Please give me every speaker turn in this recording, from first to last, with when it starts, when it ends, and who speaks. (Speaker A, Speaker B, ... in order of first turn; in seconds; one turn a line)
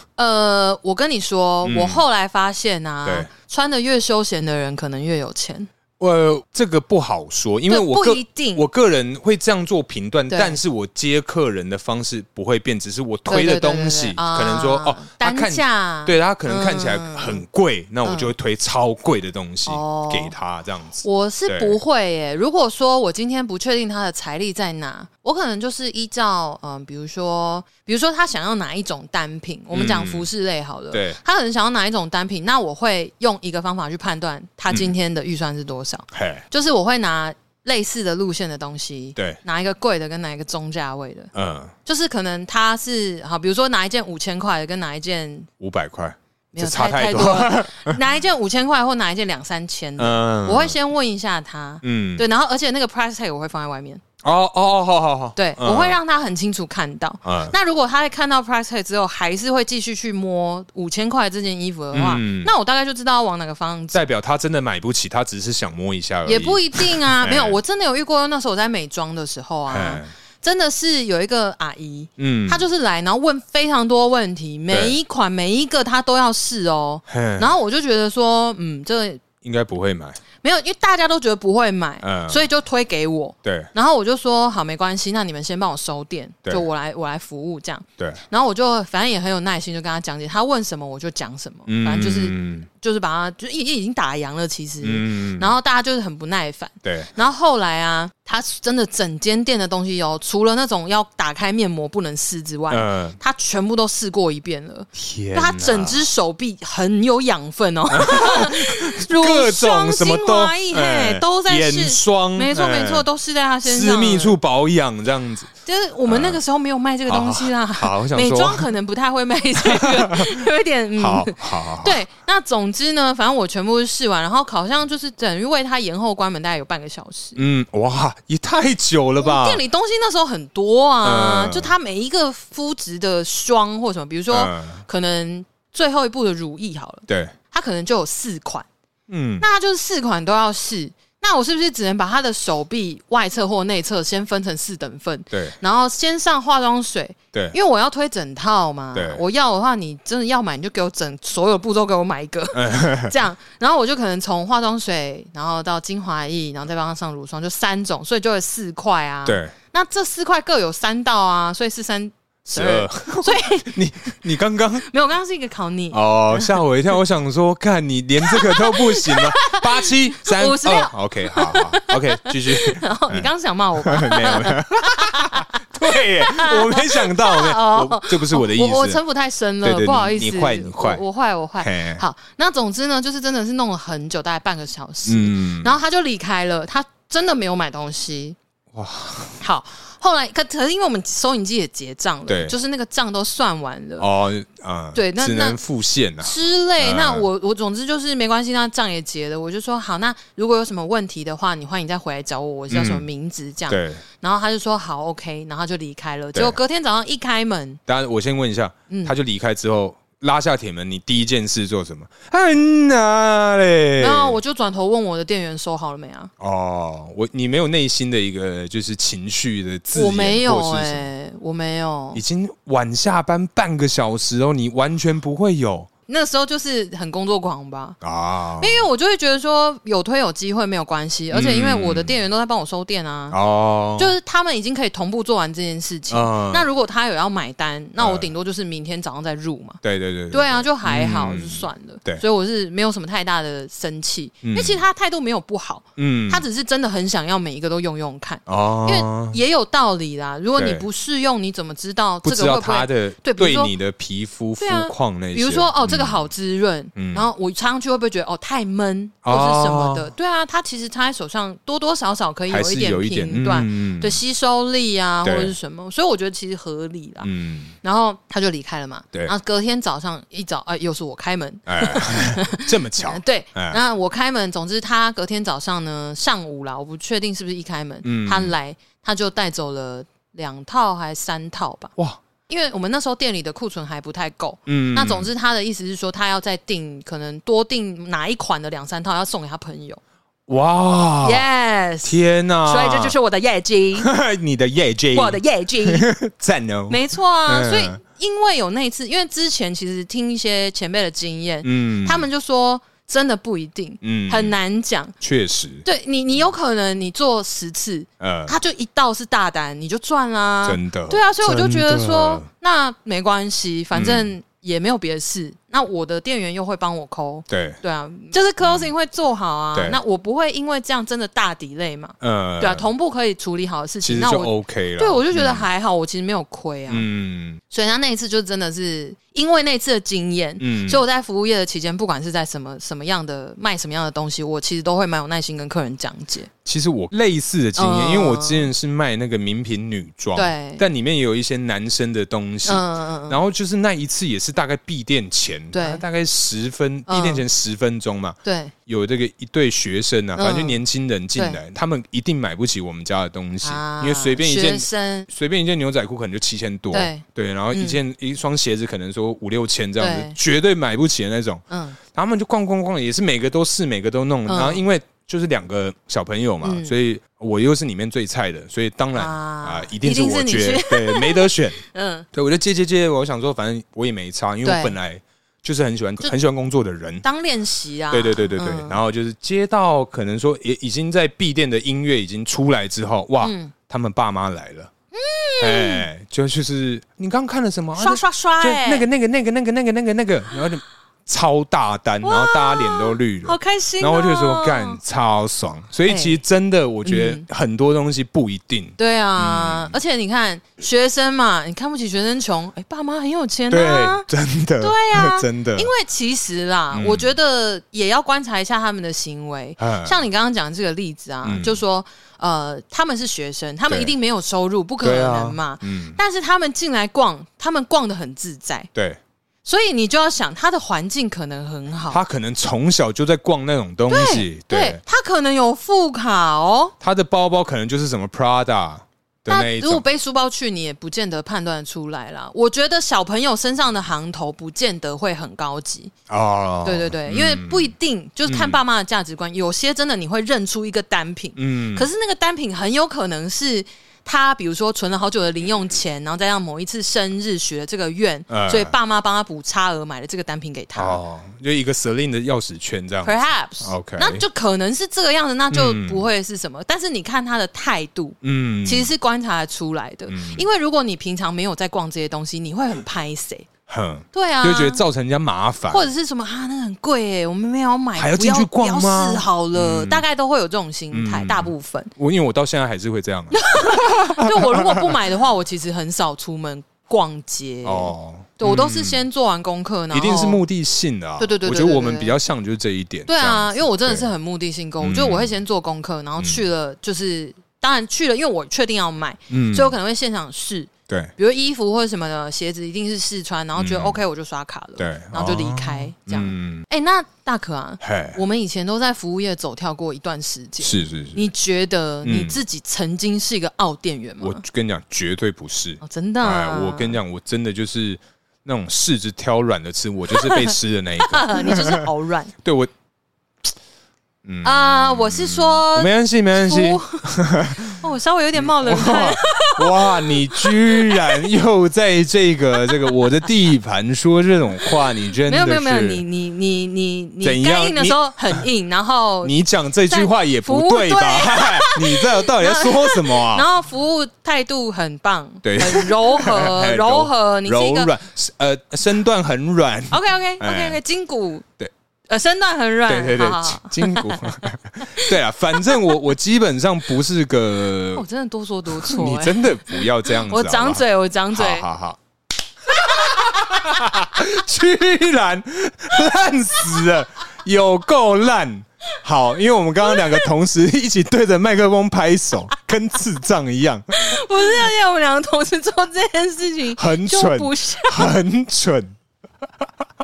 Speaker A: 0.2-5.7
Speaker B: 1.6-2.0
Speaker B: 6.0-21.8
Speaker A: 7.7-8.6
Speaker A: 10.3-10.6
Speaker A: 13.3-17.4
Speaker A: 18.0-18.3
Speaker A: 19.6-20.3
Speaker A: 21.0-41.3
Speaker B: 29.7-30.3
Speaker B: 30.9-31.2
Speaker B: 36.1-36.4
Speaker B: 41.3-41.7
Speaker A: 41.8-45.5
Speaker B: 45.6-48.0
Speaker A: 46.5-54.0
Speaker B: 50.0-50.7
Speaker B: 51.8-52.2
Speaker B: 54.2-56.0
Speaker A: 55.4-64.0
Speaker B: 57.2-57.5
Speaker B: 61.9-62.5
Speaker B: 63.9-67.6
Speaker A: 66.2-79.2
Speaker B: 69.7-70.1
Speaker B: 72.2-72.6
Speaker B: 74.7-75.0
Speaker B: 77.1-77.5
Speaker B: 79.4-80.2
Speaker A: 80.4-114.3
Speaker B: 82.0-82.4
Speaker B: 83.4-83.7
Speaker B: 91.7-92.7
Speaker B: 94.8-95.5
Speaker B: 96.8-97.1
Speaker B: 102.7-103.2
Speaker B: 104.9-106.0
Speaker B: 107.9-113.1
Speaker B: 113.6-115.5
Speaker A: 115.7-127.4
Speaker B: 116.1-116.4
Speaker B: 117.1-118.7
Speaker B: 119.6-120.4
Speaker B: 121.0-122.0
Speaker B: 127.3-129.6
Speaker A: 129.2-138.7
Speaker B: 131.0-131.7
Speaker B: 134.3-134.8
Speaker B: 137.1-137.3
Speaker B: 139.1-139.4
Speaker A: 139.4-163.8
Speaker B: 145.3-145.6
Speaker B: 148.9-149.2
Speaker B: 152.5-153.1
Speaker B: 159.2-159.5
Speaker B: 162.4-164.8
Speaker A: 164.8-166.6
Speaker B: 165.9-173.3
Speaker A: 168.2-188.4
Speaker B: 173.8-179.0
Speaker B: 179.6-181.0
Speaker B: 181.6-182.0
Speaker B: 185.1-185.8
Speaker B: 188.7-189.4
Speaker A: 189.4-194.1
Speaker B: 192.3-192.6
Speaker B: 194.0-197.2
Speaker A: 194.9-195.6
Speaker A: 196.2-207.8
Speaker B: 202.7-203.0
Speaker B: 203.7-204.0
Speaker B: 207.9-214.4
Speaker A: 208.9-209.1
Speaker A: 214.0-216.3
Speaker B: 216.4-221.1
Speaker A: 219.9-222.2
Speaker B: 222.1-225.9
Speaker A: 226.1-228.0
Speaker B: 228.0-228.8
Speaker A: 228.6-233.4
Speaker B: 231.3-232.1
Speaker B: 233.3-234.2
Speaker A: 233.9-239.8
Speaker B: 236.1-236.7
Speaker B: 238.0-238.3
Speaker B: 239.8-242.2
Speaker A: 240.3-253.7
Speaker B: 244.4-244.8
Speaker B: 246.0-246.4
Speaker B: 248.5-249.4
Speaker B: 250.6-250.8
Speaker B: 252.2-256.3
Speaker A: 254.6-267.3
Speaker B: 256.9-257.3
Speaker B: 259.2-260.1
Speaker B: 262.5-264.2
Speaker B: 265.2-265.5
Speaker B: 267.2-267.7
Speaker A: 267.8-281.9
Speaker B: 271.7-273.8
Speaker B: 278.0-278.5
Speaker A: 282.5-290.0
Speaker B: 284.7-285.3
Speaker B: 290.5-291.4
Speaker A: 291.2-294.1
Speaker B: 292.0-293.1
Speaker B: 294.0-298.0
Speaker A: 295.1-296.1
Speaker A: 296.9-305.1
Speaker B: 301.6-302.2
Speaker B: 304.0-304.6
Speaker B: 305.2-305.9
Speaker A: 305.8-327.1
Speaker B: 308.2-308.5
Speaker B: 310.6-312.5
Speaker B: 313.9-314.3
Speaker B: 317.5-317.8
Speaker B: 318.6-318.9
Speaker B: 319.7-320.0
Speaker B: 322.2-322.9
Speaker B: 324.0-325.7
Speaker B: 326.9-327.6
Speaker A: 327.7-336.5
Speaker B: 330.6-331.0
Speaker B: 336.6-371.8
Speaker A: 337.8-338.7
Speaker A: 340.3-340.8
Speaker A: 342.6-343.4
Speaker A: 345.7-346.0
Speaker A: 347.1-347.4
Speaker A: 348.4-348.7
Speaker A: 350.4-350.8
Speaker A: 353.6-355.3
Speaker A: 356.9-358.0
Speaker A: 360.0-360.4
Speaker A: 361.7-362.0
Speaker A: 364.5-364.8
Speaker A: 366.6-366.9
Speaker A: 369.1-372.3
Speaker B: 372.3-377.2
Speaker A: 374.6-374.9
Speaker A: 377.2-379.0
Speaker B: 378.1-384.9
Speaker A: 383.4-383.7
Speaker A: 385.1-386.1
Speaker B: 385.6-399.9
Speaker A: 388.0-389.1
Speaker A: 392.2-395.0
Speaker A: 396.1-396.4
Speaker A: 397.0-397.4
Speaker A: 399.0-404.3
Speaker B: 403.7-405.9
Speaker A: 404.8-418.9
Speaker B: 406.9-407.3
Speaker B: 409.8-410.2
Speaker B: 411.4-411.8
Speaker B: 413.9-414.1
Speaker B: 415.0-416.2
Speaker B: 418.9-419.2
Speaker A: 419.6-422.2
Speaker B: 422.1-425.0
Speaker A: 424.1-426.9
Speaker B: 427.0-430.0
Speaker A: 429.5-436.1
Speaker B: 436.3-437.9
Speaker A: 436.8-451.2
Speaker B: 438.4-438.8
Speaker B: 441.6-442.1
Speaker B: 448.5-448.9
Speaker B: 450.9-454.4
Speaker A: 453.2-463.7
Speaker B: 455.7-456.3
Speaker B: 458.4-459.1
Speaker B: 460.3-460.6
Speaker B: 463.9-466.1
Speaker A: 464.3-465.0
Speaker A: 465.9-472.1
Speaker B: 468.2-470.2
Speaker B: 471.1-475.1
Speaker A: 473.5-480.6
Speaker B: 477.8-479.2
Speaker B: 480.1-484.3
Speaker A: 481.4-482.3
Speaker A: 483.3-504.6
Speaker B: 485.0-485.5
Speaker B: 486.4-486.7
Speaker B: 489.5-490.0
Speaker B: 493.8-494.2
Speaker B: 495.0-496.8
Speaker B: 498.0-498.4
Speaker B: 500.8-501.4
Speaker B: 502.2-502.6
Speaker B: 504.4-512.1
Speaker A: 506.0-507.2
Speaker A: 510.3-512.5
Speaker B: 512.6-512.9
Speaker B: 514.4-518.0
Speaker A: 514.6-521.5
Speaker B: 518.6-526.2
Speaker A: 522.8-523.2
Speaker A: 525.4-529.6
Speaker B: 527.4-528.6
Speaker B: 529.4-533.6
Speaker A: 530.1-538.1
Speaker B: 535.6-541.0
Speaker A: 540.1-541.6
Speaker A: 542.3-545.9
Speaker B: 543.1-548.2
Speaker A: 548.1-551.9
Speaker B: 549.0-552.2
Speaker B: 552.9-564.8
Speaker A: 553.0-553.8
Speaker A: 560.1-560.5
Speaker A: 564.1-568.3
Speaker B: 567.0-569.1